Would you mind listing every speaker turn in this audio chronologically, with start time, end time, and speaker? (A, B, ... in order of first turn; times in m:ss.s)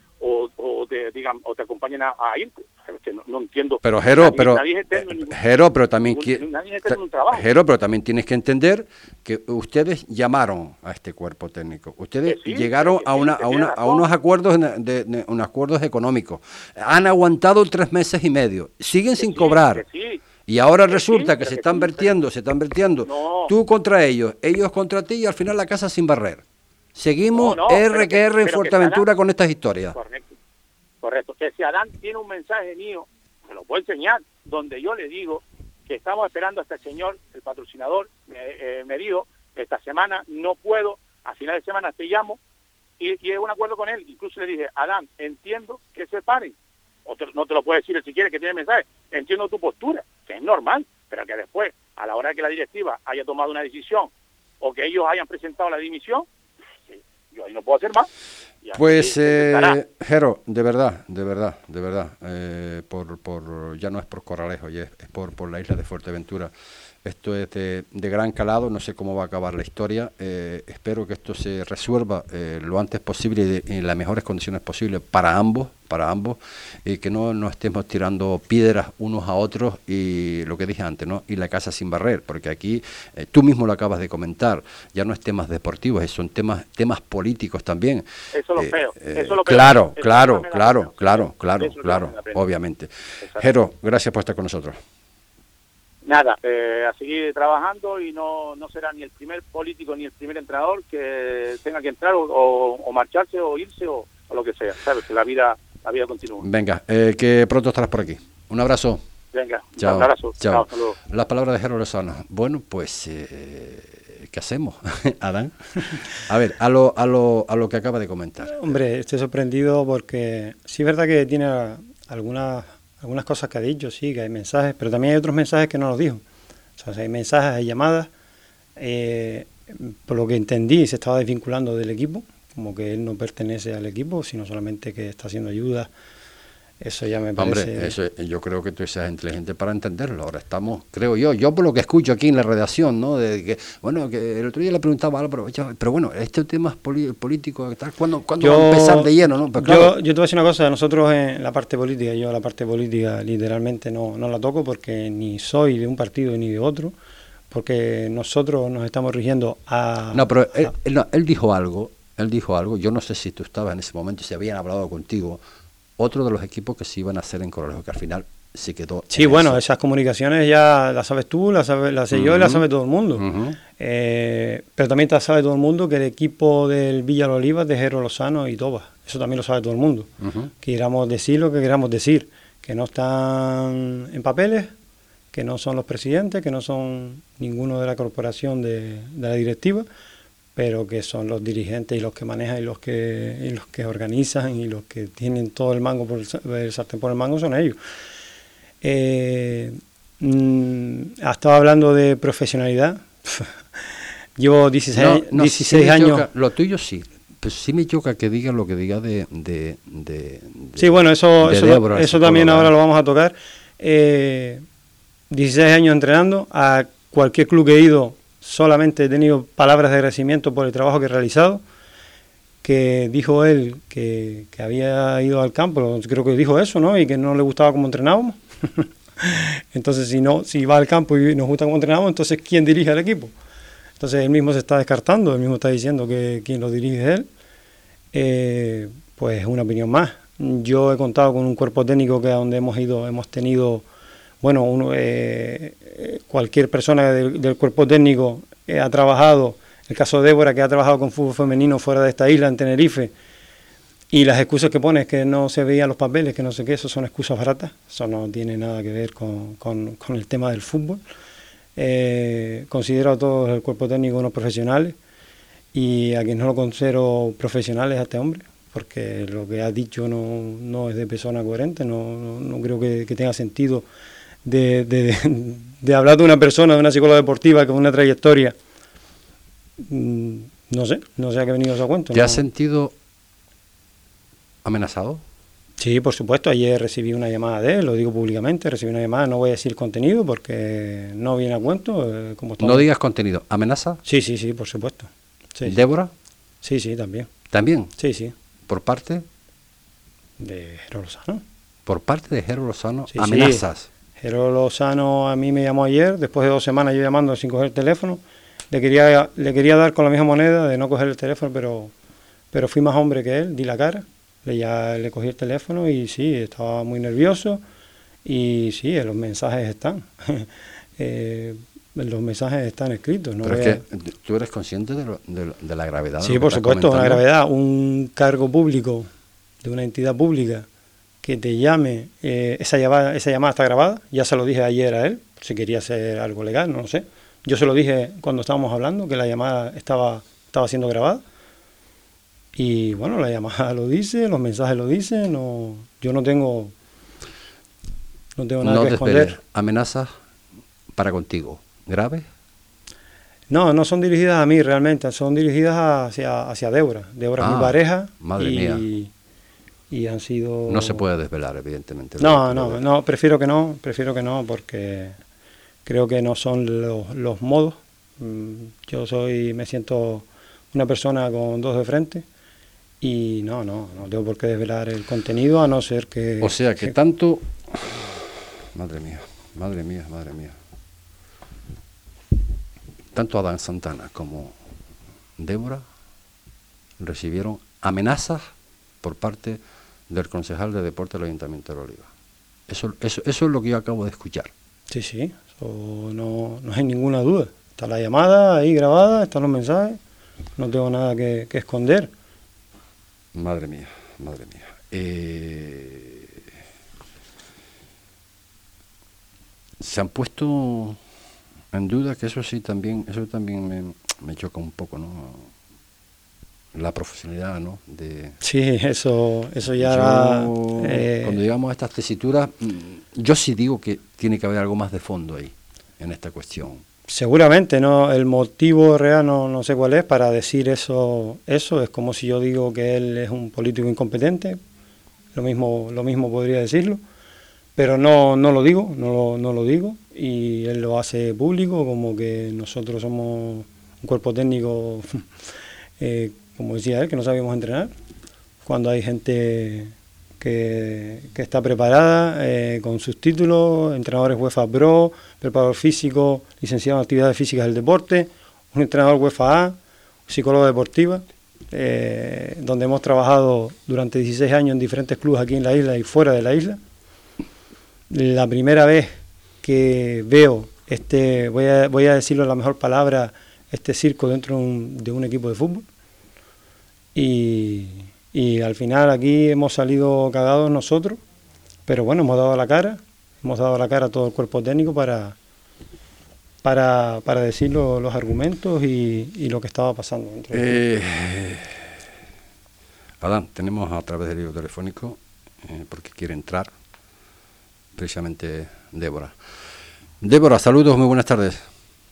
0:00.2-0:05.4 A
0:03.8-0:19.8 B
0:06.1-0:07.4 A
0:12.2-0:14.0 A
0:19.2-0:20.2 A
0:20.5-0:30.0 B
0:20.9-0:22.1 A
0:23.0-0:23.5 A
0:27.3-0:29.0 A
0:29.9-0:30.4 A
0:31.0-0:42.4 A
0:43.0-0:56.3 A
0:56.9-0:58.1 A
0:58.6-0:59.8 A
0:58.7-1:06.5 B
1:07.0-1:34.8 B
1:28.3-1:32.4 A
1:36.0-1:46.4 A
1:46.4-1:49.0 B
1:49.3-1:51.0 A
1:49.8-1:58.7 B
1:58.4-2:06.2 C
2:06.8-2:08.1 C
2:08.8-2:15.9 C
2:16.8-2:17.9 C
2:17.4-2:29.9 B
2:28.4-2:37.0 C
2:37.5-2:40.7 C
2:40.1-2:45.4 B
2:46.0-2:49.6 B
2:49.1-3:00.1 C
2:52.1-2:53.6 B
3:00.2-3:00.5 B
3:00.6-3:04.7 C
3:05.3-3:09.9 C
3:10.5-3:17.8 C
3:18.8-3:26.3 C
3:24.9-3:32.7 B
3:30.8-3:34.6 C
3:35.3-3:41.6 C
3:42.6-3:53.3 C
3:54.0-3:57.3 C
3:58.1-4:03.8 C
4:04.4-4:13.1 C
4:14.1-4:21.0 C
4:21.8-4:25.0 C
4:25.7-4:33.8 C
4:34.4-4:38.6 C
4:39.8-4:42.4 C
4:42.1-4:42.9 B
4:44.6-4:45.2 B
4:45.8-4:52.9 C
4:52.6-4:54.0 B
4:54.0-4:55.8 C
4:55.6-4:56.1 B
4:56.6-4:57.3 C
4:57.5-4:57.9 B
4:58.0-4:58.3 C
4:58.7-4:59.2 B
5:00.4-5:01.4 C
5:01.8-5:03.9 B
5:03.1-5:08.2 C
5:08.7-5:11.9 C
5:12.5-5:17.6 C
5:18.2-5:23.8 C
5:23.4-5:27.2 B
5:26.2-5:29.1 C
5:29.6-5:30.7 C
5:31.2-5:41.2 C
5:42.5-5:46.7 C
5:48.4-5:49.4 C
5:48.6-5:50.1 B
5:50.9-5:52.3 B
5:53.5-5:59.1 C
5:57.4-5:58.8 B
5:59.9-6:01.0 C
6:00.7-6:02.8 B
6:02.2-6:05.2 C
6:05.8-6:12.2 C
6:13.0-6:16.9 C
6:16.4-6:20.6 B
6:23.1-6:24.6 B
6:25.4-6:25.8 B
6:27.0-6:32.1 B
6:32.7-6:34.5 B
6:34.9-6:40.0 C
6:40.6-6:42.1 C
6:43.3-6:46.3 B
6:49.8-6:51.0 B
6:51.7-6:55.5 B
6:56.7-6:58.4 B
6:58.4-7:01.4 C
6:59.8-7:06.8 B
7:07.1-7:14.6 C
7:15.3-7:17.0 C
7:17.8-7:25.3 C
7:26.0-7:27.9 C
7:28.6-7:39.8 C
7:40.3-7:46.8 C
7:48.1-7:55.8 C
7:57.1-8:01.2 C
8:01.9-8:05.4 C
8:06.6-8:10.8 C
8:10.5-8:11.9 B
8:13.2-8:16.7 B
8:18.0-8:19.3 B
8:20.2-8:21.6 B